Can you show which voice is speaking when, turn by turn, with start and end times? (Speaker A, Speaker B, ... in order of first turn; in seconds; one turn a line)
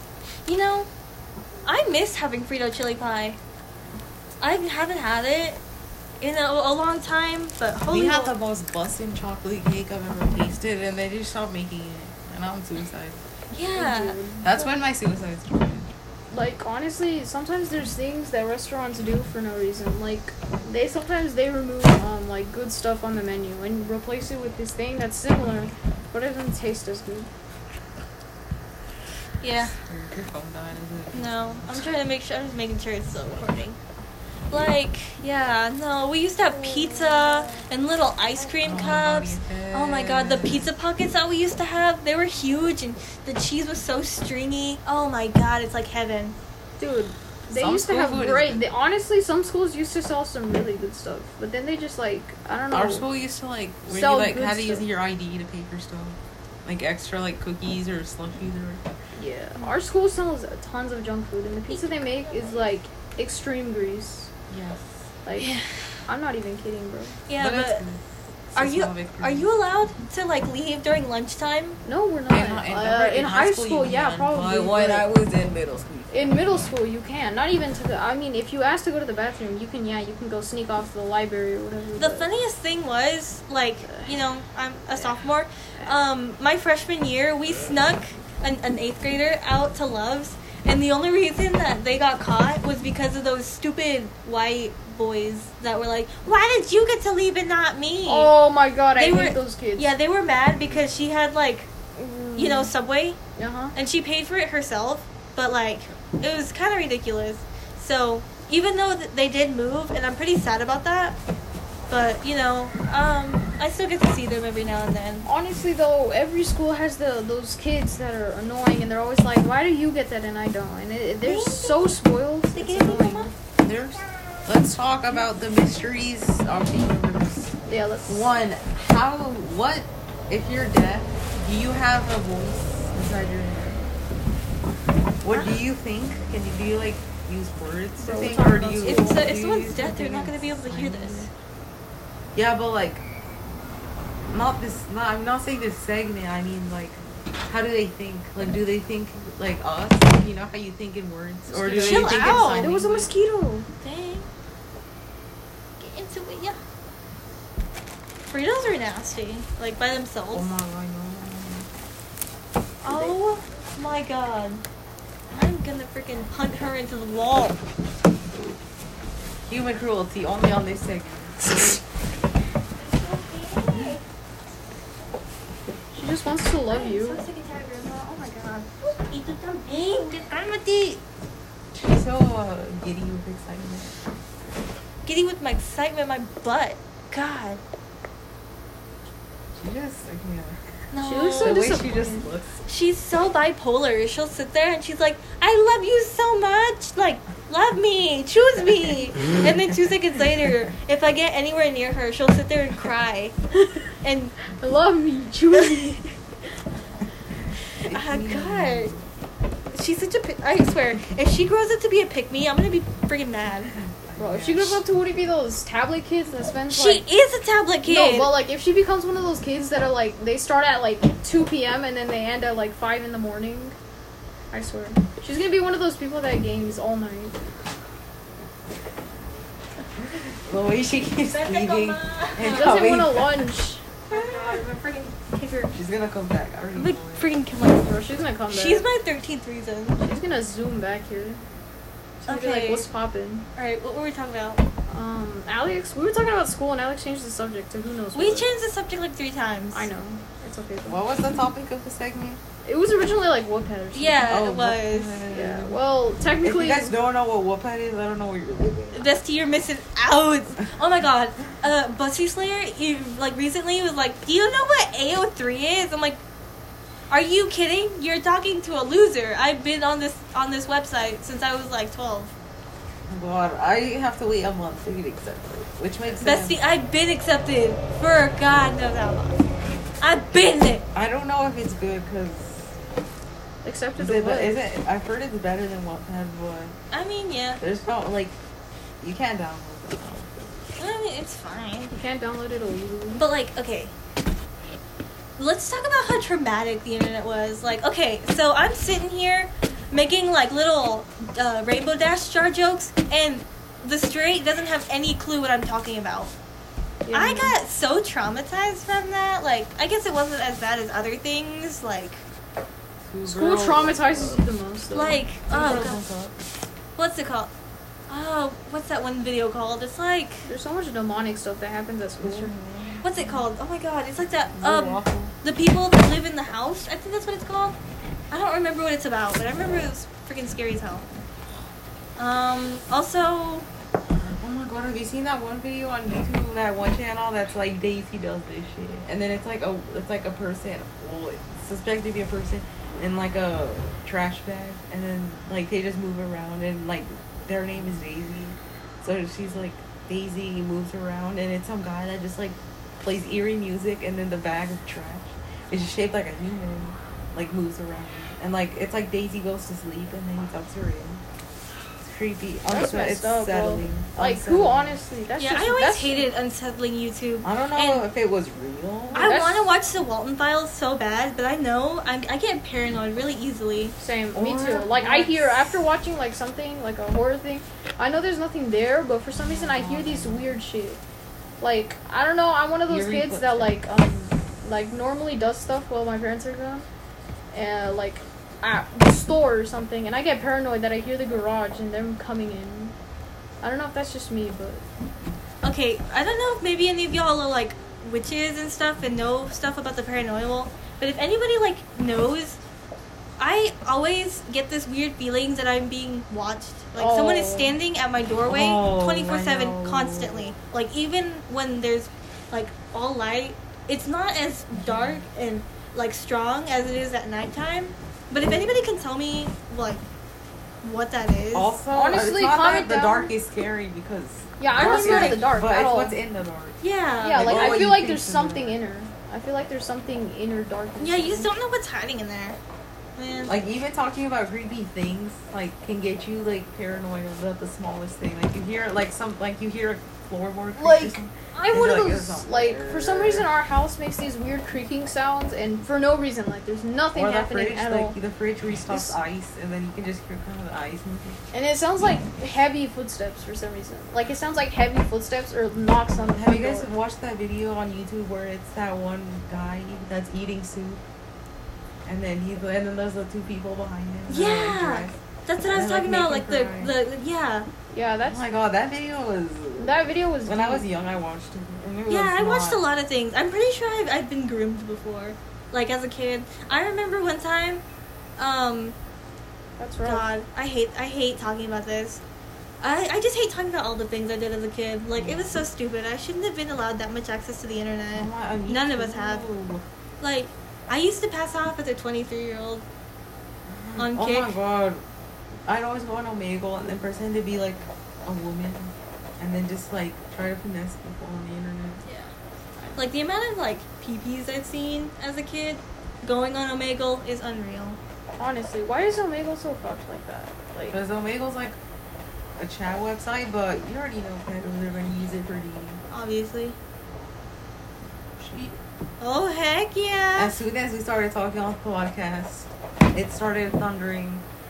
Speaker A: 0.5-0.9
Speaker A: 1.6-3.4
Speaker A: 4.4-5.6
Speaker A: 6.2-8.3
Speaker B: 7.9-13.2
Speaker A: 13.5-14.2
Speaker C: 13.7-14.5
Speaker B: 14.4-15.9
Speaker C: 16.3-27.3
Speaker A: 29.4-29.7
Speaker B: 29.6-31.9
Speaker A: 31.1-33.8
Speaker A: 34.5-46.4
Speaker B: 38.6-40.7
Speaker C: 46.8-53.1
Speaker B: 47.5-48.6
Speaker B: 52.7-58.8
Speaker C: 53.9-54.9
Speaker C: 59.1-64.3
Speaker A: 61.7-62.5
Speaker B: 64.5-65.1
Speaker C: 65.2-67.2
Speaker A: 65.4-65.7
Speaker A: 67.3-67.8
Speaker B: 67.4-69.5
Speaker A: 68.5-71.8
Speaker C: 71.8-75.1
Speaker B: 72.3-76.4
Speaker C: 76.1-82.3
Speaker A: 82.0-98.3
Speaker C: 98.0-99.9
Speaker A: 99.0-101.7
Speaker C: 102.0-102.7
Speaker A: 102.4-103.2
Speaker C: 103.4-103.8
Speaker A: 103.8-111.2
Speaker A: 111.9-115.3
Speaker C: 115.3-123.3
Speaker A: 121.2-122.0
Speaker A: 122.5-123.3
Speaker B: 123.6-127.5
Speaker C: 127.7-128.4
Speaker B: 128.1-133.9
Speaker B: 135.2-141.3
Speaker C: 138.0-139.2
Speaker A: 138.8-141.3
Speaker B: 142.3-143.0
Speaker B: 144.3-153.1
Speaker C: 151.5-153.7
Speaker A: 151.7-152.7
Speaker A: 153.8-154.3
Speaker A: 155.8-156.6
Speaker A: 158.3-160.5
Speaker B: 160.3-161.7
Speaker C: 162.8-163.1
Speaker A: 162.8-164.6
Speaker A: 165.3-167.6
Speaker B: 169.5-171.6
Speaker A: 172.8-174.0
Speaker B: 173.7-174.0
Speaker C: 175.9-177.2
Speaker A: 176.7-181.0
Speaker B: 181.7-183.9
Speaker A: 185.1-187.6
Speaker B: 189.6-190.6
Speaker A: 190.9-191.7
Speaker C: 191.0-192.3
Speaker B: 191.4-192.7
Speaker A: 192.7-203.3
Speaker A: 204.0-204.4
Speaker C: 204.6-206.1
Speaker A: 207.8-208.9
Speaker B: 207.8-209.1
Speaker A: 209.7-213.7
Speaker B: 213.9-214.8
Speaker C: 214.2-217.1
Speaker A: 216.7-218.4
Speaker C: 217.8-223.8
Speaker C: 224.5-227.4
Speaker B: 230.0-233.5
Speaker A: 231.2-232.9
Speaker C: 232.4-234.7
Speaker A: 234.1-235.7
Speaker B: 235.7-237.3
Speaker A: 236.8-237.9
Speaker C: 237.8-238.8
Speaker A: 238.5-240.0
Speaker C: 240.0-241.4
Speaker C: 242.2-243.4
Speaker A: 242.3-242.9
Speaker A: 243.6-244.6
Speaker C: 244.9-248.5
Speaker A: 248.2-249.9
Speaker C: 249.7-251.0
Speaker B: 250.9-252.4
Speaker C: 252.7-254.3
Speaker A: 253.9-255.2
Speaker B: 254.3-255.8
Speaker C: 255.3-256.9
Speaker B: 256.4-259.1
Speaker A: 258.9-266.2
Speaker A: 267.1-272.3
Speaker B: 273.1-276.6
Speaker A: 276.2-279.4
Speaker A: 280.0-280.9
Speaker B: 280.9-282.7
Speaker C: 283.6-284.6
Speaker B: 284.0-286.8
Speaker A: 286.9-287.6
Speaker B: 287.6-288.4
Speaker B: 289.0-290.7
Speaker A: 290.8-291.9
Speaker C: 291.9-293.2
Speaker A: 293.2-293.9
Speaker A: 295.4-306.3
Speaker C: 307.1-307.5
Speaker A: 307.1-312.2
Speaker B: 313.1-314.5
Speaker C: 313.2-315.2
Speaker A: 314.9-316.0
Speaker B: 315.5-316.4
Speaker A: 317.0-317.5
Speaker A: 318.1-320.5
Speaker C: 320.5-322.5
Speaker B: 322.2-323.4
Speaker A: 323.0-327.8
Speaker B: 324.6-325.3
Speaker A: 328.3-331.1
Speaker A: 332.2-333.7
Speaker B: 334.1-361.2
Speaker B: 362.0-365.0
Speaker C: 362.7-366.3
Speaker A: 365.4-368.1
Speaker B: 367.4-369.3
Speaker C: 369.1-369.7
Speaker A: 369.1-373.9
Speaker C: 374.0-381.0
Speaker B: 374.3-375.7
Speaker B: 379.5-380.6
Speaker C: 381.6-386.9
Speaker B: 382.9-383.8
Speaker C: 387.5-392.9
Speaker C: 393.6-394.8
Speaker A: 395.6-402.6
Speaker A: 403.4-420.0
Speaker C: 407.0-407.8
Speaker B: 408.5-410.5
Speaker A: 420.8-421.8
Speaker B: 421.5-426.8
Speaker C: 421.9-423.3
Speaker C: 424.6-426.2
Speaker A: 424.8-425.5
Speaker A: 426.8-427.9
Speaker C: 427.2-431.5
Speaker B: 427.3-428.8
Speaker A: 431.0-432.6
Speaker A: 433.2-433.6
Speaker B: 433.5-443.5
Speaker C: 440.8-448.2
Speaker B: 447.1-451.4
Speaker C: 448.9-449.2
Speaker C: 451.5-456.9
Speaker B: 456.2-461.0
Speaker B: 462.1-466.9
Speaker A: 464.3-467.7
Speaker C: 467.9-468.4
Speaker B: 468.3-472.9
Speaker C: 469.8-470.9
Speaker A: 472.1-477.8
Speaker A: 478.4-479.0
Speaker C: 479.8-480.3
Speaker A: 480.0-482.2
Speaker A: 482.8-489.5
Speaker B: 485.2-485.6
Speaker B: 488.1-489.8
Speaker A: 490.2-492.8
Speaker B: 493.7-495.0
Speaker A: 494.0-494.5
Speaker B: 495.7-502.0
Speaker A: 503.0-508.0
Speaker C: 508.4-511.0
Speaker B: 510.9-511.8
Speaker B: 512.6-516.0
Speaker A: 516.1-516.8
Speaker B: 518.4-518.8
Speaker A: 519.2-520.5
Speaker B: 520.4-524.5